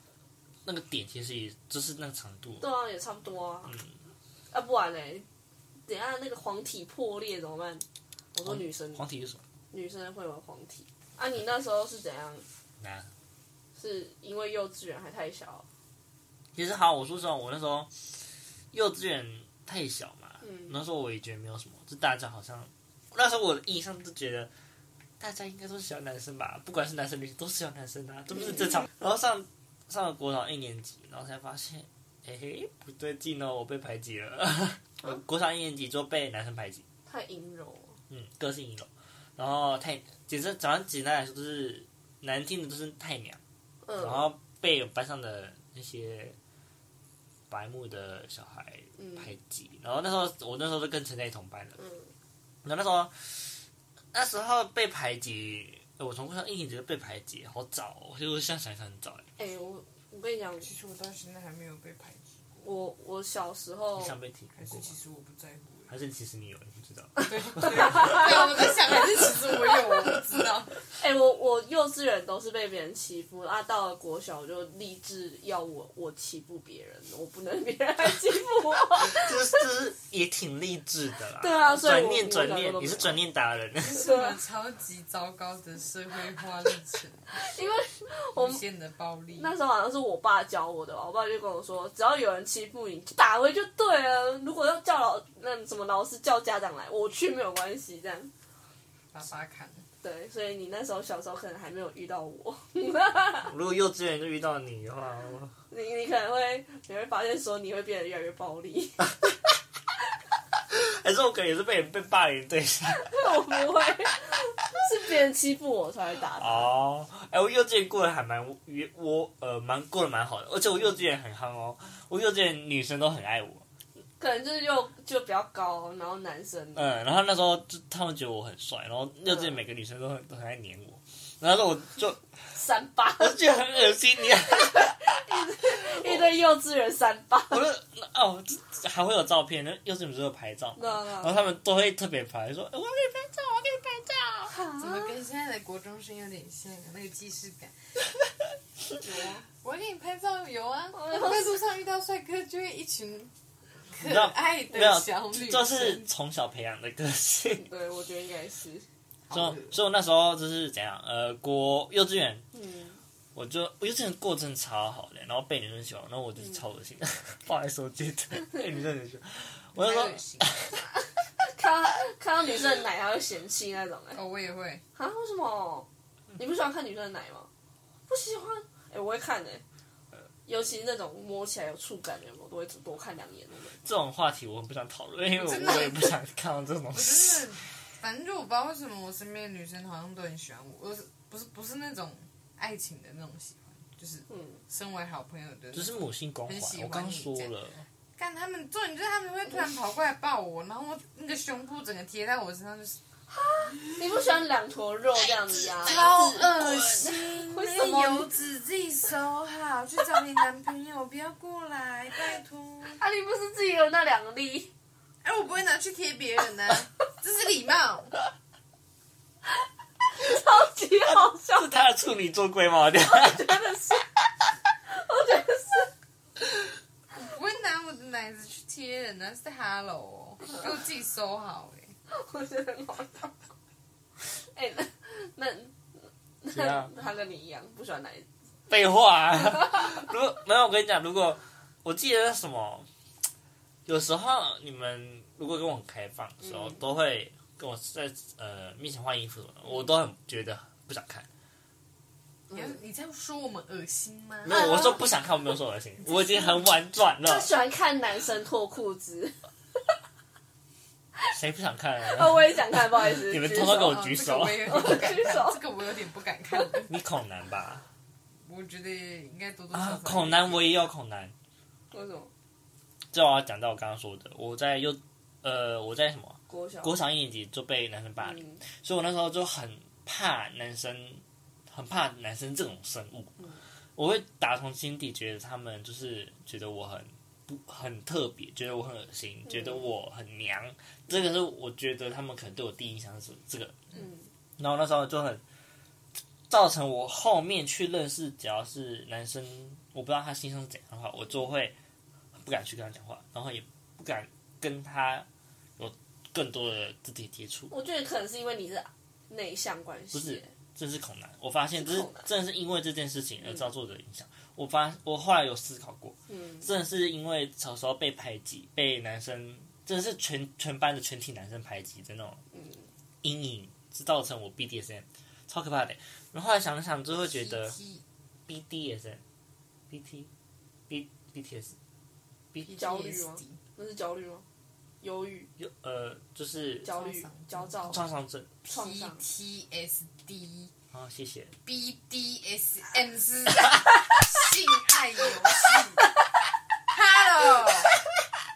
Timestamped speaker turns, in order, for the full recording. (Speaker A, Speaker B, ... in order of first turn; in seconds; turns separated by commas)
Speaker A: 0.7-2.6, Speaker B: 2.6-3.8, Speaker A: 3.7-3.9, Speaker B: 4.5-5.3, Speaker B: 5.9-9.0, Speaker A: 8.4-9.4, Speaker B: 9.7-12.4, Speaker A: 12.8-13.1, Speaker B: 13.8-15.7, Speaker A: 16.6-17.9, Speaker A: 18.7-24.5, Speaker B: 20.4-20.7, Speaker A: 25.2-36.8, Speaker B: 37.1-38.0, Speaker A: 38.1-43.4, Speaker B: 43.9-44.3, Speaker A: 44.0-46.4, Speaker A: 47.5-51.8, Speaker B: 49.0-49.3, Speaker B: 51.8-52.1, Speaker A: 52.6-53.6, Speaker A: 54.1-59.2, Speaker B: 59.4-60.7, Speaker C: 60.6-62.6, Speaker B: 62.6-64.2, Speaker A: 64.0-64.9, Speaker C: 64.5-65.9, Speaker A: 65.9-68.3, Speaker C: 67.3-70.8, Speaker B: 67.6-68.5, Speaker B: 70.9-79.6, Speaker A: 79.0-84.0, Speaker B: 81.4-83.2, Speaker C: 83.8-87.6, Speaker B: 83.9-84.4, Speaker B: 87.3-88.6, Speaker C: 88.3-89.5, Speaker B: 89.4-98.3, Speaker C: 99.1-99.8, Speaker B: 100.0-103.5, Speaker A: 103.5-105.5, Speaker B: 105.7-109.1, Speaker A: 110.7-113.3, Speaker B: 113.0-116.7, Speaker A: 116.4-123.7, Speaker B: 124.2-127.0, Speaker A: 126.8-132.2, Speaker B: 132.5-133.4, Speaker A: 133.2-136.3, Speaker B: 134.4-137.7, Speaker A: 137.5-144.6, Speaker B: 140.8-141.5, Speaker B: 144.5-145.1, Speaker C: 144.8-147.9, Speaker C: 149.0-153.3, Speaker B: 150.9-151.6, Speaker C: 153.9-156.1, Speaker A: 154.0-157.7, Speaker B: 157.6-158.9, Speaker C: 159.3-159.8, Speaker A: 159.3-162.4, Speaker B: 162.5-163.0, Speaker A: 163.3-170.8, Speaker C: 169.8-170.8, Speaker B: 171.4-174.2, Speaker C: 174.2-174.8, Speaker B: 174.9-177.5, Speaker B: 178.1-179.6, Speaker B: 180.5-183.8, Speaker A: 183.8-187.6, Speaker C: 185.3-186.2, Speaker C: 186.9-197.5, Speaker B: 194.3-194.6, Speaker A: 195.7-197.8, Speaker C: 198.2-203.0, Speaker B: 203.3-208.3, Speaker A: 205.8-207.1, Speaker C: 205.8-213.0, Speaker B: 212.8-214.7, Speaker C: 215.2-218.2, Speaker B: 220.2-221.7, Speaker A: 221.1-223.6, Speaker B: 223.0-224.1, Speaker B: 224.9-225.9, Speaker C: 227.2-231.9, Speaker B: 232.1-233.3, Speaker B: 234.4-235.8, Speaker B: 236.4-238.3, Speaker A: 236.5-236.9, Speaker A: 238.7-242.9, Speaker A: 243.9-251.3, Speaker C: 252.5-254.8, Speaker A: 254.4-257.5, Speaker B: 257.2-259.4, Speaker A: 261.3-265.0, Speaker B: 262.0-264.0, Speaker C: 263.5-266.9, Speaker B: 264.7-265.6, Speaker A: 266.9-267.9, Speaker C: 268.4-270.8, Speaker A: 269.7-271.3, Speaker B: 271.9-272.3, Speaker A: 273.1-283.4, Speaker B: 276.5-276.9, Speaker B: 278.2-278.6, Speaker A: 284.0-293.8, Speaker A: 294.6-295.4, Speaker A: 296.5-301.8, Speaker A: 302.3-305.3, Speaker A: 305.8-307.7, Speaker B: 307.7-310.5, Speaker A: 310.1-322.4, Speaker B: 311.8-312.3, Speaker B: 316.3-316.6, Speaker B: 322.5-322.9, Speaker A: 323.2-327.8, Speaker C: 327.2-328.0, Speaker A: 328.5-329.2, Speaker A: 329.9-330.3, Speaker A: 330.9-331.8, Speaker C: 332.6-333.6, Speaker B: 332.7-334.4, Speaker B: 335.0-335.5, Speaker A: 335.6-336.9, Speaker B: 336.9-338.0, Speaker C: 336.9-338.1, Speaker A: 337.9-338.5, Speaker C: 338.7-340.7, Speaker B: 338.7-339.2, Speaker A: 340.9-341.6, Speaker C: 341.6-346.1, Speaker C: 346.9-348.0